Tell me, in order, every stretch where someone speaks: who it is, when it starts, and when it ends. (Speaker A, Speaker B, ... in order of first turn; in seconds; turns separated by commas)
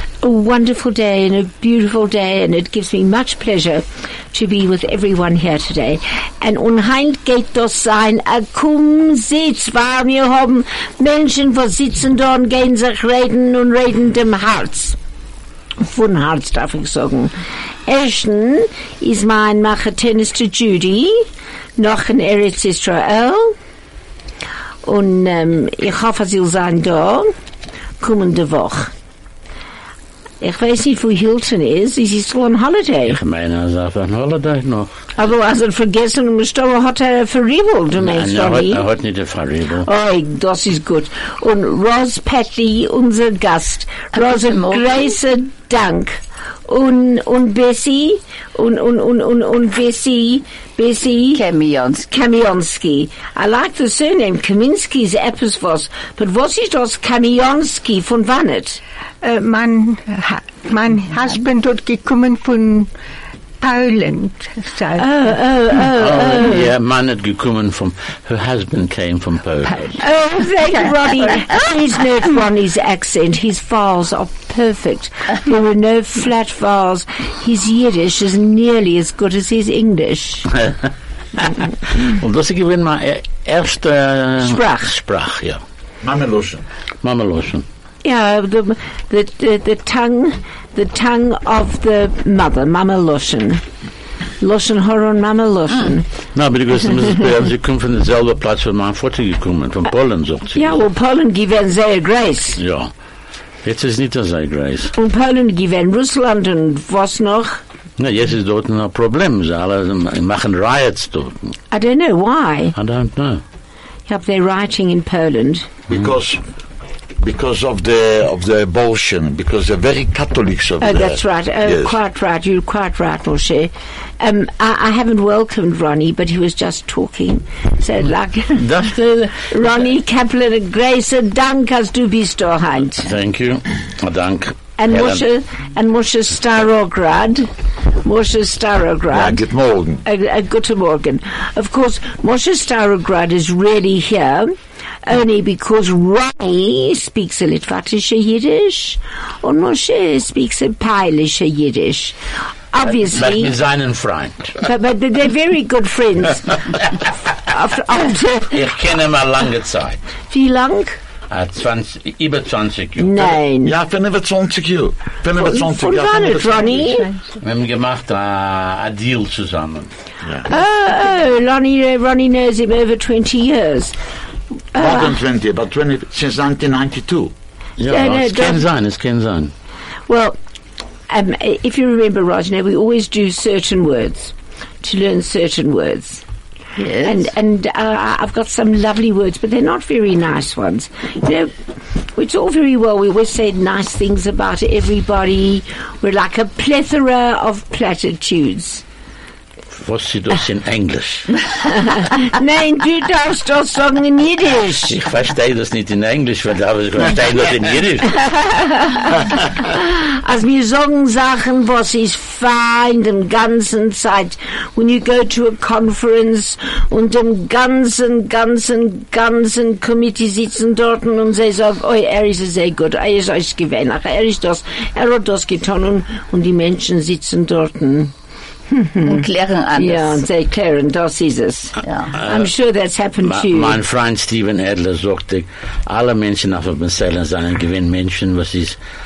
Speaker A: 0.2-14.9, Speaker A: 15.8-17.3, Speaker A: 17.9-21.2, Speaker A: 21.8-23.6, Speaker A: 24.8-27.3, Speaker A: 28.0-28.9, Speaker A: 30.4-33.2, Speaker B: 33.0-35.0, Speaker A: 35.1-38.9, Speaker B: 38.0-39.9, Speaker A: 39.8-51.4, Speaker C: 44.1-45.1, Speaker C: 51.3-52.1, Speaker A: 52.1-58.8, Speaker D: 59.2-62.9, Speaker D: 63.6-65.0, Speaker A: 65.0-66.7, Speaker B: 65.9-70.0, Speaker A: 70.0-80.5, Speaker B: 81.4-85.6, Speaker A: 84.4-84.9, Speaker E: 86.0-86.6, Speaker B: 87.0-87.7, Speaker A: 88.0-93.6, Speaker A: 94.4-96.0, Speaker B: 96.3-100.8, Speaker A: 100.5-102.6, Speaker B: 102.6-102.9, Speaker B: 103.6-104.9, Speaker A: 104.9-107.6, Speaker B: 108.0-111.5, Speaker A: 111.7-112.7, Speaker B: 112.8-113.4, Speaker A: 114.1-115.7, Speaker E: 115.9-116.4, Speaker E: 117.2-122.0, Speaker A: 120.8-133.1, Speaker B: 128.5-129.6, Speaker B: 133.0-135.2, Speaker A: 134.8-137.5, Speaker A: 138.0-139.4, Speaker E: 139.1-140.0, Speaker A: 140.0-144.5, Speaker A: 145.1-152.2, Speaker A: 152.7-153.5, Speaker B: 152.9-154.6, Speaker A: 154.6-156.8, Speaker A: 157.4-158.5, Speaker B: 158.5-160.0, Speaker A: 160.3-161.0, Speaker B: 161.3-163.4, Speaker A: 163.0-163.7, Speaker E: 163.6-167.1, Speaker A: 165.3-167.1, Speaker B: 167.4-169.9, Speaker E: 170.2-170.5, Speaker A: 170.4-173.9, Speaker E: 174.7-177.3, Speaker A: 174.7-175.1, Speaker B: 177.8-179.5, Speaker A: 177.9-178.6, Speaker A: 180.1-180.4, Speaker A: 181.1-186.2, Speaker C: 186.8-187.3, Speaker A: 187.0-191.5, Speaker A: 192.2-198.8, Speaker B: 199.7-201.4, Speaker A: 201.7-204.9, Speaker B: 204.9-208.3, Speaker A: 208.2-228.1, Speaker A: 228.7-233.8, Speaker C: 229.0-230.2, Speaker C: 231.8-232.1, Speaker B: 232.2-232.5, Speaker B: 233.2-238.8